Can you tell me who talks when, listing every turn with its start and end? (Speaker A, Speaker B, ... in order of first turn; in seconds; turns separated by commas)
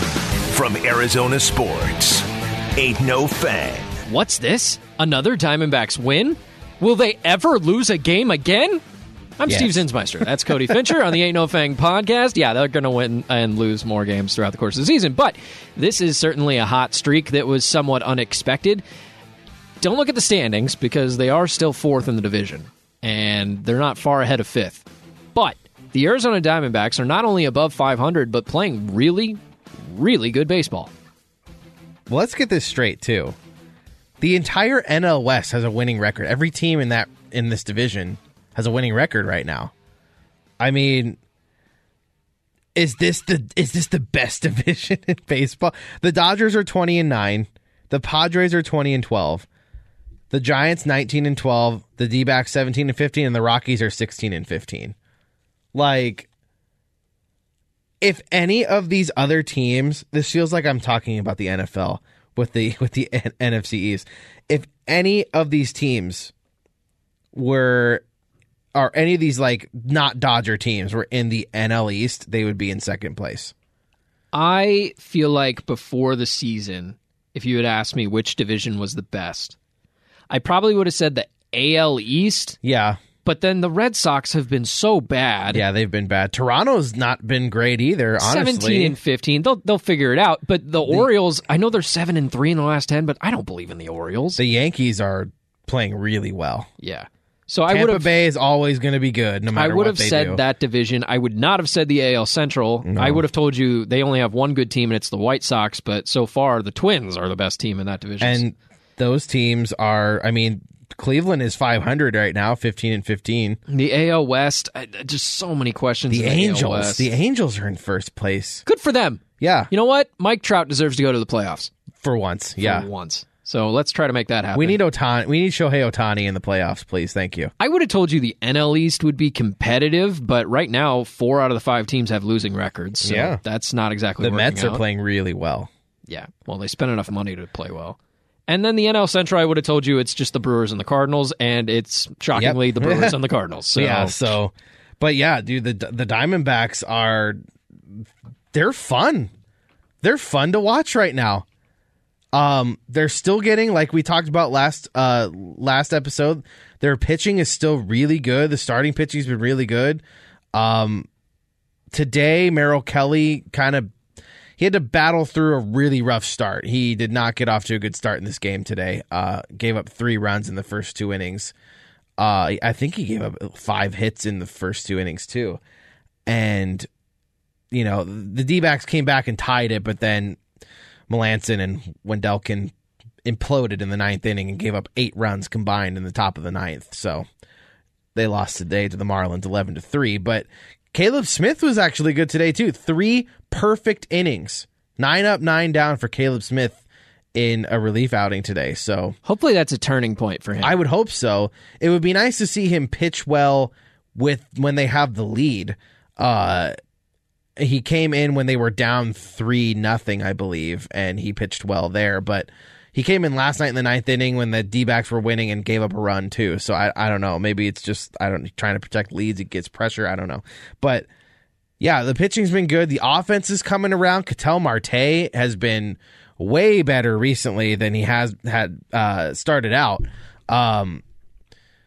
Speaker A: 0.5-4.0, Speaker B: 4.0-8.8, Speaker B: 9.4-18.8, Speaker C: 9.5-9.8, Speaker B: 19.8-30.9, Speaker C: 32.1-33.4, Speaker C: 34.2-39.7, Speaker C: 40.6-41.2, Speaker C: 42.7-49.5, Speaker C: 50.3-54.9, Speaker C: 55.7-56.3, Speaker C: 58.0-66.3, Speaker C: 67.3-68.0, Speaker C: 68.7-73.5, Speaker B: 74.3-79.5, Speaker B: 80.3-82.6, Speaker C: 82.6-83.0, Speaker B: 83.2-85.6, Speaker C: 85.5-89.0, Speaker B: 88.2-94.4, Speaker C: 94.4-96.7, Speaker B: 96.8-98.1, Speaker C: 97.7-100.4, Speaker B: 99.5-108.4, Speaker C: 102.8-103.2, Speaker C: 108.2-113.6, Speaker B: 113.7-117.1, Speaker C: 116.1-118.6, Speaker B: 118.6-121.7, Speaker C: 119.4-119.7, Speaker C: 122.0-122.9, Speaker B: 122.6-124.8, Speaker C: 124.5-127.5, Speaker B: 127.6-134.8, Speaker C: 133.0-133.4, Speaker C: 134.2-135.7, Speaker B: 136.1-138.0, Speaker B: 138.5-144.3, Speaker C: 142.3-143.2, Speaker C: 143.8-147.4, Speaker C: 148.0-149.3, Speaker C: 150.0-151.4, Speaker C: 152.3-160.0, Speaker C: 160.5-161.1, Speaker C: 161.9-163.9, Speaker C: 164.6-171.5, Speaker C: 172.2-175.6, Speaker C: 176.2-176.9, Speaker C: 177.7-180.4, Speaker C: 181.1-182.7, Speaker C: 183.2-187.3, Speaker C: 188.1-196.8, Speaker C: 197.3-199.2, Speaker B: 199.2-200.8, Speaker C: 200.6-206.7, Speaker C: 207.6-221.1, Speaker C: 221.8-231.0